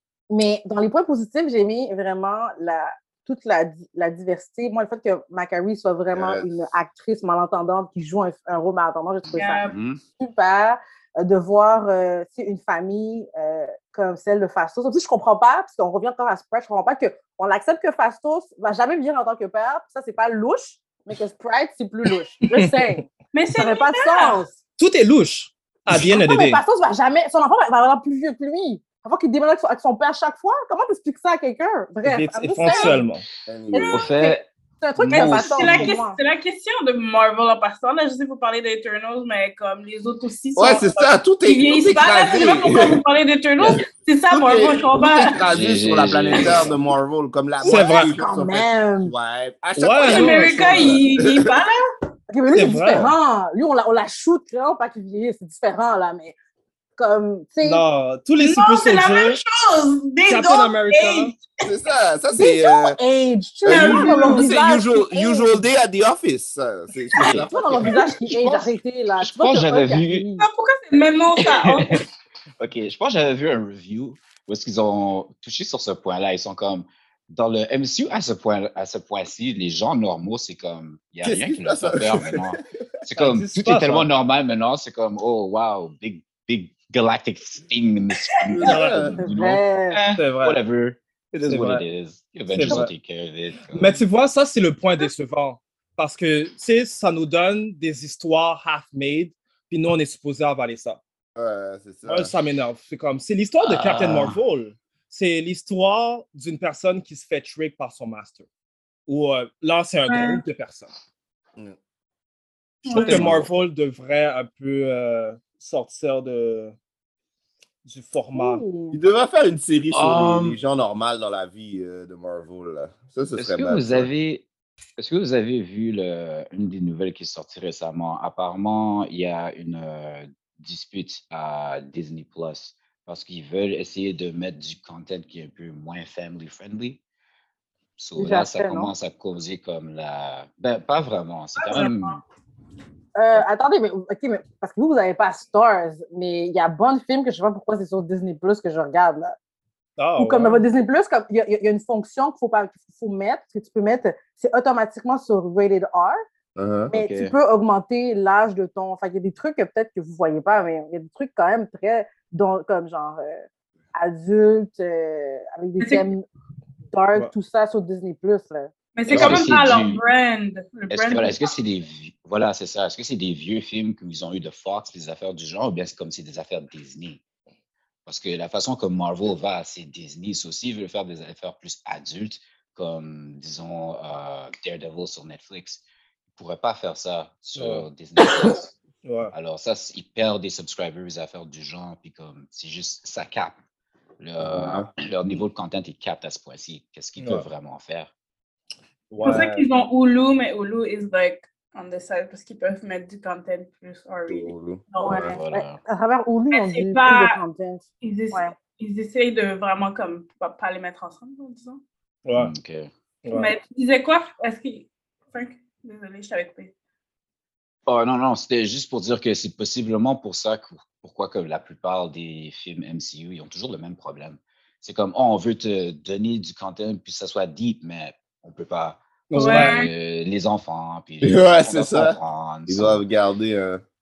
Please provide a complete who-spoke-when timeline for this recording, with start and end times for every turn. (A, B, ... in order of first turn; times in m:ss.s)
0:00.3-0:09.6 A
0:06.1-0:06.5 B
0:09.3-0:10.0 C
0:09.4-0:09.8 D
0:10.2-0:23.0 A
0:22.4-0:23.0 E
0:23.3-0:24.4 D
0:23.6-0:24.6 A
0:24.8-0:26.6 E
0:26.0-0:33.0 A
0:32.0-0:33.3 E
0:32.7-0:33.0 D
0:33.5-0:34.1 B
0:33.8-0:36.2 A
0:33.9-0:34.5 C
0:35.0-0:35.9 E
0:35.1-0:45.4 D
0:40.6-0:43.0 B
0:44.3-0:51.5 B
0:45.5-0:46.8 C
0:47.6-0:49.1 A
0:47.7-0:48.1 E
0:49.8-0:51.0 E
0:50.1-0:51.8 D
0:52.3-0:56.4 A
0:52.5-0:53.1 E
0:57.0-0:57.8 A
0:57.6-0:59.4 E
0:58.4-1:01.6 D
1:00.3-1:01.3 E
1:01.6-1:03.0 B
1:02.4-1:05.6 A
1:03.7-1:04.5 D
1:03.7-1:08.7 B
1:07.2-1:07.5 C
1:07.4-1:10.5 A
1:09.2-1:10.2 C
1:10.4-1:12.0 D
1:11.5-1:12.0 C
1:12.6-1:34.0 C
1:21.2-1:22.6 B
1:23.2-1:24.1 E
1:28.5-1:29.2 B
1:28.7-1:29.1 E
1:29.2-1:30.0 A
1:30.1-1:30.6 E
1:31.5-1:31.8 E
1:32.5-1:32.9 E
1:33.7-1:41.0 E
1:41.4-1:42.3 B
1:42.1-1:48.5 E
1:43.6-1:44.4 C
1:49.1-1:50.9 E
1:50.1-1:50.4 D
1:52.8-1:53.3 D
1:52.9-1:56.8 E
1:52.9-1:53.5 B
1:53.0-1:53.4 C
1:57.8-1:58.6 E
1:58.3-1:59.0 A
1:58.9-2:04.1 B
1:59.9-2:00.6 C
2:03.4-2:04.4 C
2:05.0-2:17.0 C
2:18.0-2:22.2 C
2:18.2-2:18.9 A
2:21.6-2:22.2 D
2:23.2-2:29.4 A
2:30.0-2:30.6 E
2:30.2-2:36.2 A
2:36.6-2:36.9 B
2:36.9-2:37.4 C
2:36.9-2:46.2 A
2:45.8-2:46.1 D
2:46.9-2:48.7 A
2:49.0-2:51.5 D
2:49.1-2:50.0 C
2:50.9-2:57.2 C
2:58.1-3:05.8 C
3:06.3-3:08.8 C
3:07.6-3:07.9 E
3:09.0-3:09.3 E
3:09.3-3:13.6 C
3:14.2-3:18.1 C
3:14.4-3:14.9 B
3:17.2-3:17.4 E
3:19.1-3:19.7 E
3:19.2-3:25.4 D
3:24.3-3:25.4 B
3:25.0-3:25.8 C
3:25.1-3:28.5 A
3:26.5-3:27.4 D
3:28.0-3:31.8 D
3:32.3-3:32.5 E
3:32.4-3:32.9 C
3:33.2-3:33.5 E
3:33.3-3:36.7 D
3:37.9-3:53.0 C
3:49.3-3:49.9 E
3:49.4-3:49.9 D
3:51.2-3:53.8 B